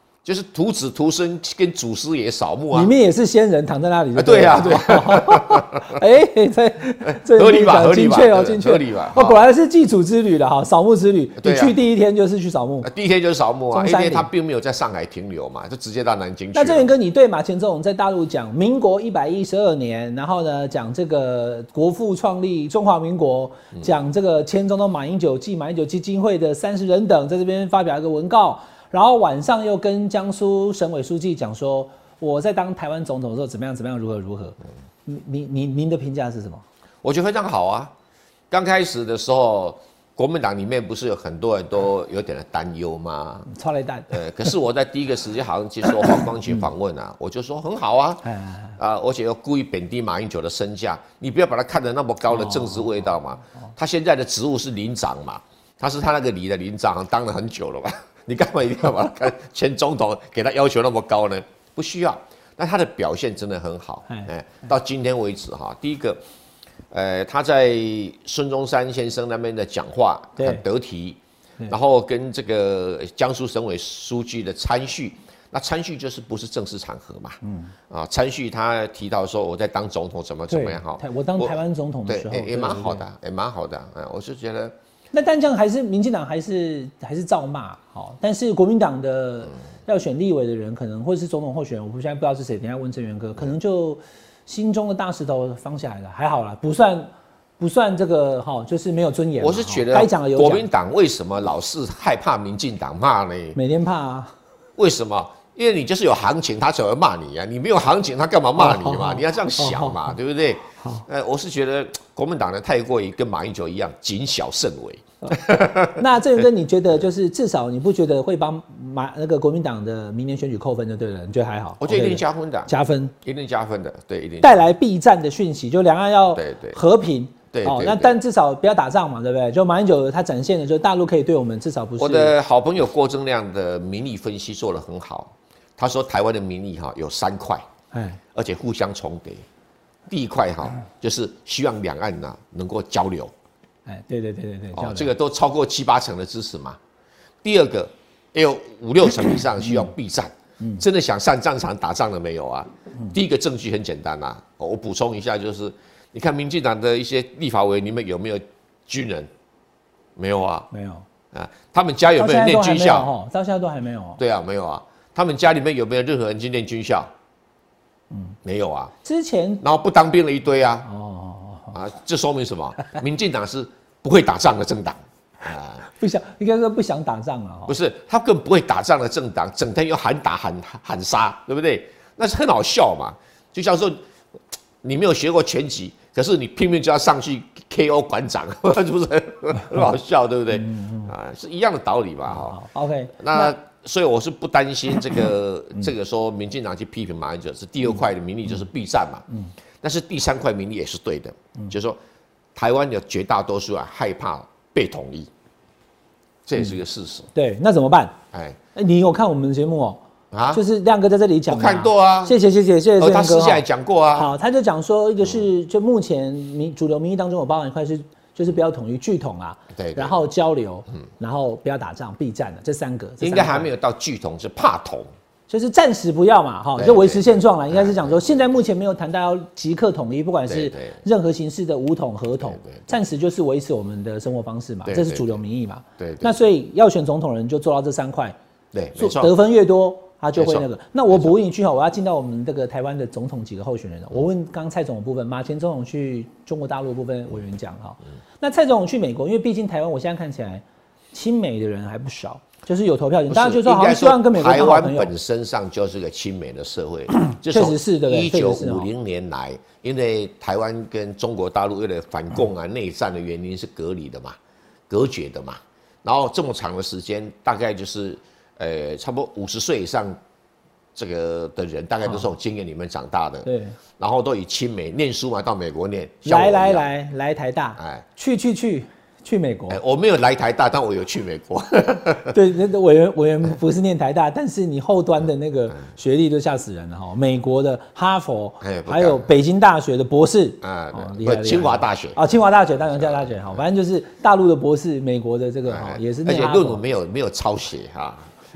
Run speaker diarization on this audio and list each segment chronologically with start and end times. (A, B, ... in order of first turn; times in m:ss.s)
0:00.2-0:02.9 A
0:02.7-0:12.9 B
0:04.2-0:06.0 A
0:07.0-0:09.4 A
0:11.4-0:11.8 A
0:12.8-0:16.9 A
0:13.7-0:14.3 B
0:16.5-0:36.6 B
0:37.0-0:37.9 A
0:38.5-0:43.5 A
0:43.5-0:44.2 B
0:44.1-0:48.2 A
0:48.2-0:48.8 B
0:48.8-1:06.2 A
0:52.3-0:53.0 B
1:06.9-1:21.5 A
1:10.4-1:10.6 B
1:17.4-1:17.7 B
1:20.5-1:23.0 B
1:22.1-1:24.7 A
1:25.1-1:40.6 B
1:39.4-1:43.6 A
1:43.5-1:44.3 B
1:44.8-1:56.0 A
1:48.6-1:50.1 B
1:50.8-1:51.0 B
1:55.9-2:03.1 B
2:01.8-2:04.6 A
2:04.4-2:12.3 B
2:06.3-2:06.8 A
2:07.5-2:08.2 A
2:12.0-2:17.6 A
2:17.9-2:18.2 B
2:18.3-2:19.4 A
2:20.1-2:23.3 A
2:23.8-2:25.1 B
2:24.7-2:26.8 A
2:27.4-2:39.3 A
2:40.2-2:40.7 A
2:40.7-2:41.0 B
2:41.3-2:43.1 A
2:42.2-2:44.2 B
2:44.2-2:47.1 A
2:48.4-2:48.9 A
2:49.0-2:49.6 B
2:49.6-2:50.9 A
2:50.8-2:51.7 B
2:51.7-2:55.8 A
2:55.9-2:57.7 B
2:57.7-3:04.0 A
3:04.8-3:12.6 A
3:10.6-3:11.1 B
3:12.3-3:13.5 B
3:13.2-3:19.2 A
3:19.8-3:22.0 A
3:22.5-3:25.3 A
3:26.4-3:27.3 A
3:27.3-3:28.2 B
3:28.3-3:28.6 A
3:28.7-3:30.0 B
3:30.3-3:30.6 A
3:30.5-3:33.6 B
3:31.5-3:32.4 A
3:33.0-3:34.3 A
3:34.1-3:43.7 B
3:39.7-3:40.1 A
3:43.2-3:45.1 A
3:45.5-3:58.4 B
3:46.8-3:48.2 A
3:50.5-3:51.0 A
3:52.4-3:52.8 A
3:54.8-3:55.4 A
3:56.0-3:56.3 A
3:58.7-3:59.3 A
3:59.0-4:15.1 B
4:00.4-4:01.3 A
4:13.3-4:24.4 A
4:17.2-4:18.9 B
4:24.9-4:30.2 A
4:30.9-4:36.9 A
4:33.4-4:33.8 B
4:36.2-4:39.8 B
4:37.8-4:38.0 A
4:39.7-4:42.3 A
4:42.3-4:56.8 B
4:48.6-4:49.3 A
4:50.6-4:52.2 A
4:52.9-4:53.4 A
4:55.7-4:58.3 A